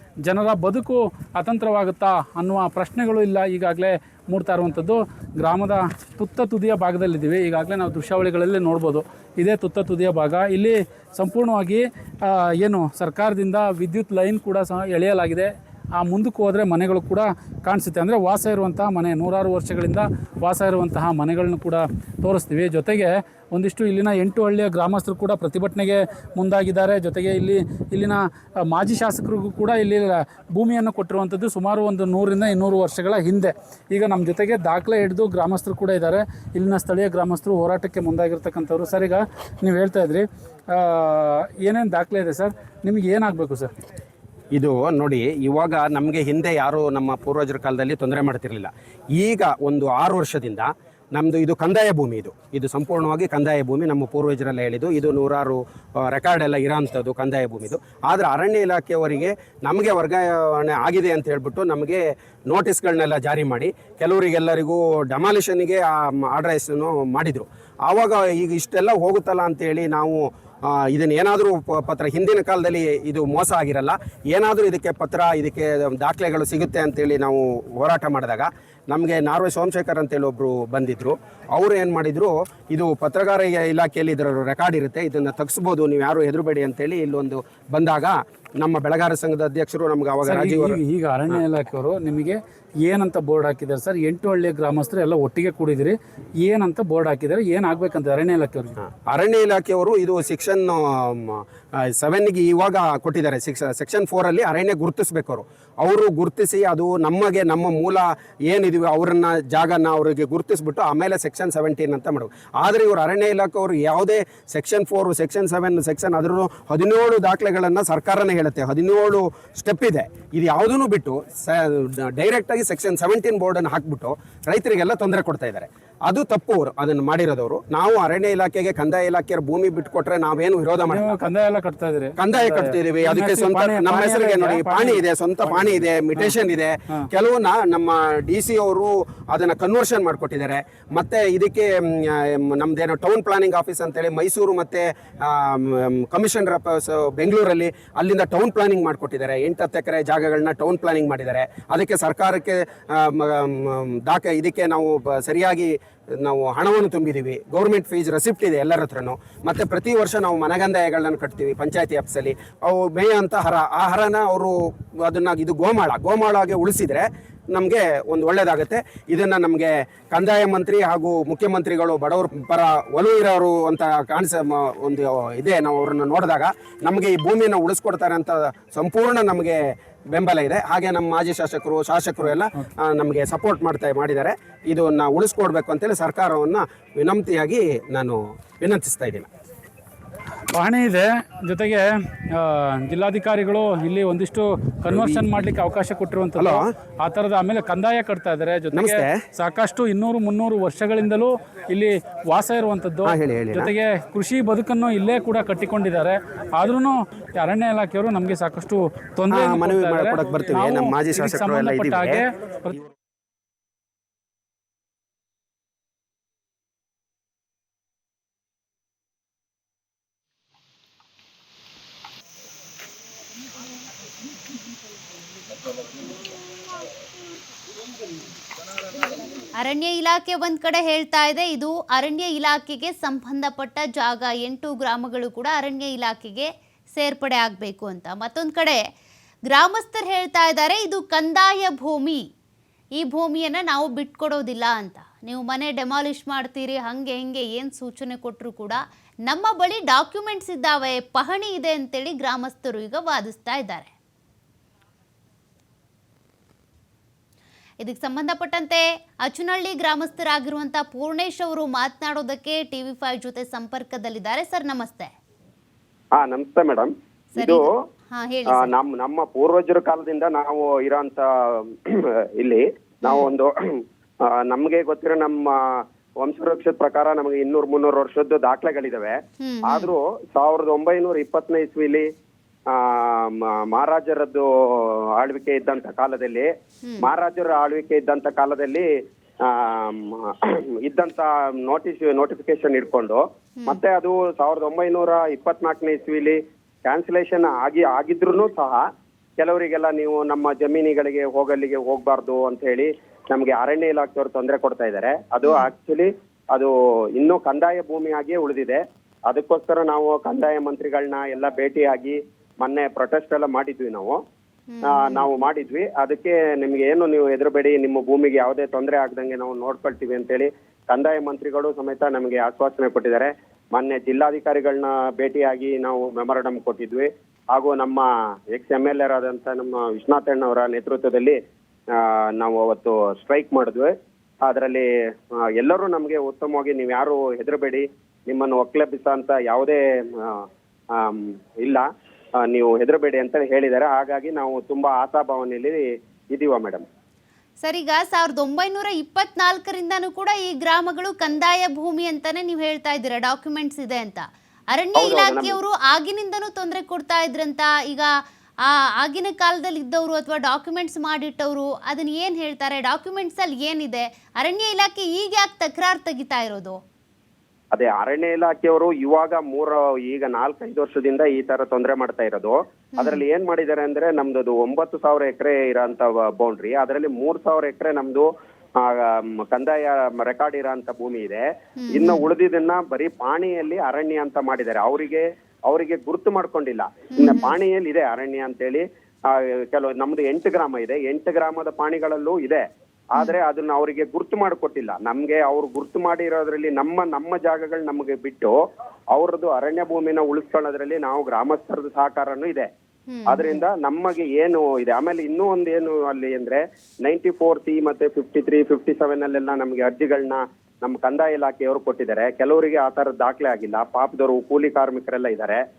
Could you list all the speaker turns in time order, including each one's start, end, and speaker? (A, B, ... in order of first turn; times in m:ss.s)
0:00.2-0:43.7 A
0:44.6-1:31.4 B
1:30.2-1:38.8 A
1:38.8-2:11.2 B
2:10.9-2:16.4 A
2:12.2-2:59.6 B
3:00.1-3:09.3 B
3:10.5-3:32.9 A
3:14.9-3:15.3 B
3:16.4-3:16.7 B
3:18.7-3:19.2 B
3:23.0-3:23.7 B
3:29.3-3:32.2 B
3:49.6-3:58.8 C
3:59.5-4:02.2 C
4:03.0-4:13.9 C
4:17.8-4:25.1 C
4:26.2-4:27.7 D
4:27.4-4:28.7 C
4:28.6-4:31.2 D
4:32.4-4:33.5 D
4:33.0-4:33.3 C
4:34.5-4:35.5 D
4:36.2-4:39.2 D
4:39.4-4:39.9 C
4:39.7-4:42.0 D
4:42.7-4:44.4 D
4:45.2-4:46.5 D
4:46.8-4:47.1 C
4:47.0-4:48.8 D
4:49.5-4:50.1 D
4:50.9-4:58.8 D
4:59.4-5:14.2 D
5:05.4-5:05.7 C
5:14.7-5:15.3 C
5:14.9-5:31.4 D
5:32.0-5:33.9 D
5:34.4-5:34.9 D
5:35.6-5:40.4 D
5:41.0-5:41.8 D
5:42.5-5:45.8 D
5:46.3-5:46.8 D
5:47.6-5:58.1 C
5:55.0-5:55.6 D
5:58.7-6:06.8 C
6:07.7-6:18.3 D
6:13.0-6:13.2 C
6:18.8-6:21.4 D
6:21.8-6:22.3 C
6:21.9-6:32.6 D
6:27.2-6:27.5 C
6:33.2-6:38.5 D
6:39.2-6:42.7 D
6:43.1-6:43.6 C
6:43.3-6:55.6 D
6:45.1-6:45.7 B